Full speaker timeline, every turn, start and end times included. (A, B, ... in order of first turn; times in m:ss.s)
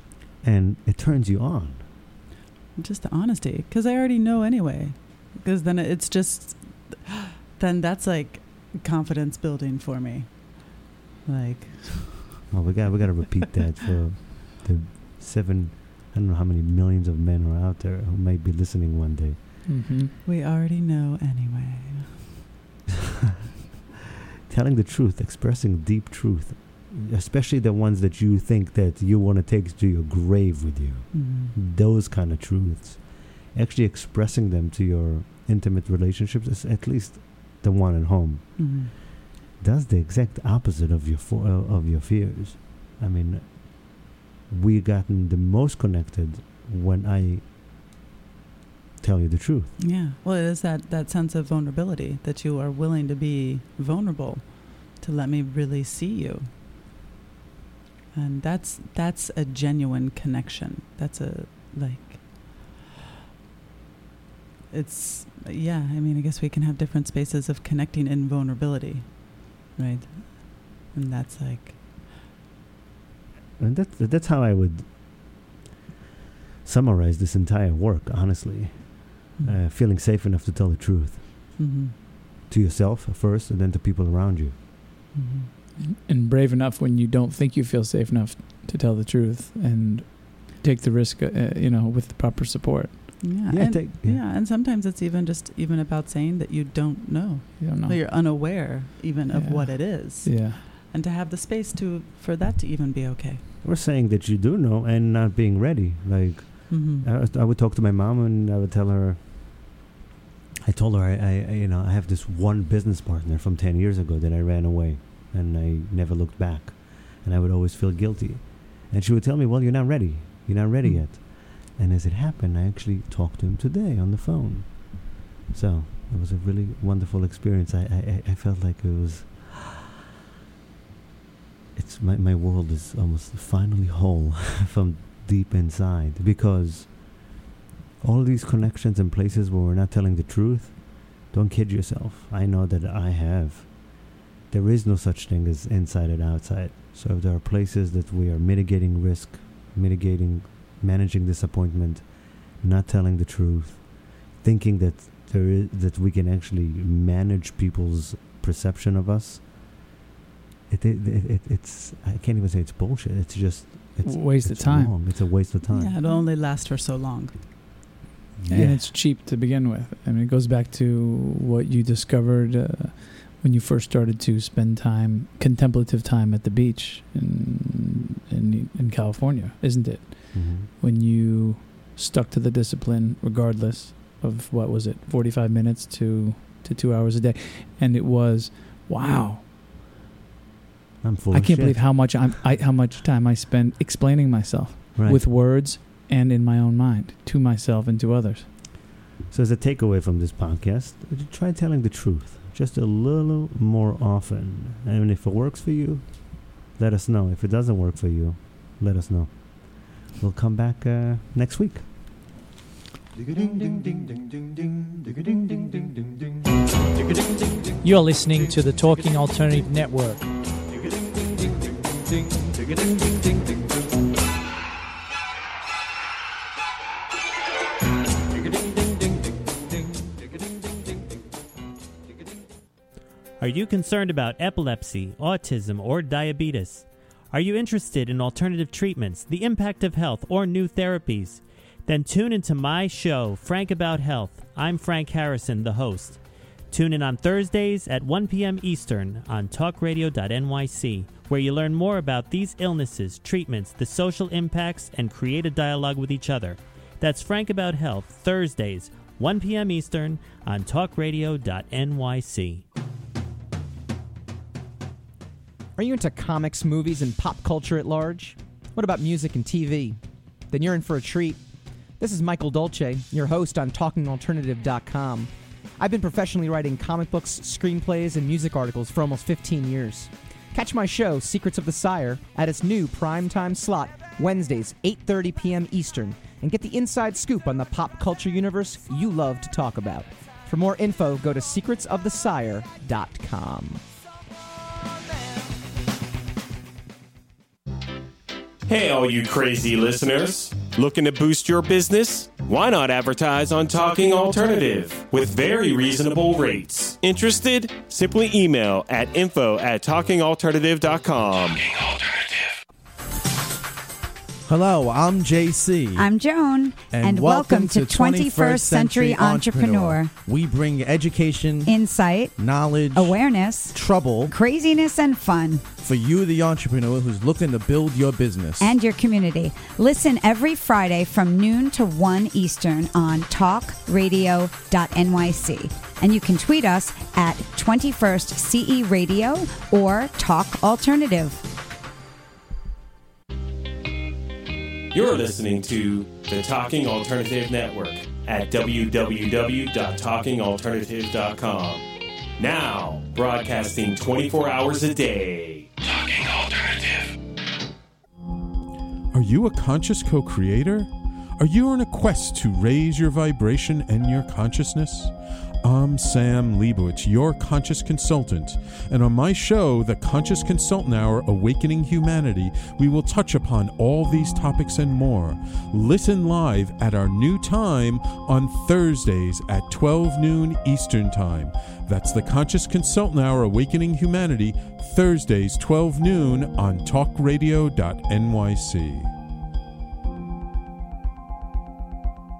0:00.4-0:01.9 A
0:02.8-0:12.4 B
0:12.5-0:19.8 A
0:19.6-0:20.1 C
0:20.2-0:22.4 B
0:24.5-0:39.0 A
0:31.1-0:31.5 B
0:38.6-0:38.9 B
0:39.6-0:47.4 A
0:49.0-0:49.7 A
0:49.8-0:56.5 B
0:58.1-1:02.8 B
1:04.7-1:12.1 B
1:13.6-1:15.4 A
1:16.6-1:21.3 A
1:21.6-1:21.9 B
1:22.5-1:24.6 A
1:25.1-1:25.5 B
1:25.8-1:33.2 C
1:33.2-1:43.4 B
1:33.5-1:34.2 A
1:37.6-1:38.3 C
1:39.3-1:40.6 C
1:43.6-1:49.2 A
1:46.7-1:47.0 B
1:50.6-2:09.8 A
2:00.8-2:01.1 B
2:11.7-2:17.3 A
2:18.0-2:39.8 A
2:40.7-2:45.9 A
2:44.0-2:44.9 C
2:45.6-2:47.4 B
2:48.4-2:48.8 A
2:48.5-3:09.4 C
3:00.3-3:00.7 A
3:11.0-3:12.3 A
3:11.3-3:18.5 C
3:15.0-3:15.2 A
3:19.3-3:31.9 A
3:37.8-3:40.3 D
3:53.4-4:22.6 E
4:25.8-4:31.4 F
4:32.0-4:53.9 F
4:58.6-5:11.6 G
5:14.5-5:16.1 H
5:15.9-5:20.1 I
5:16.9-5:24.3 H
5:21.6-5:25.6 I
5:25.8-5:28.7 H
5:28.6-5:41.4 I
5:44.9-5:51.8 G
5:52.4-5:55.7 G
5:59.1-6:29.1 J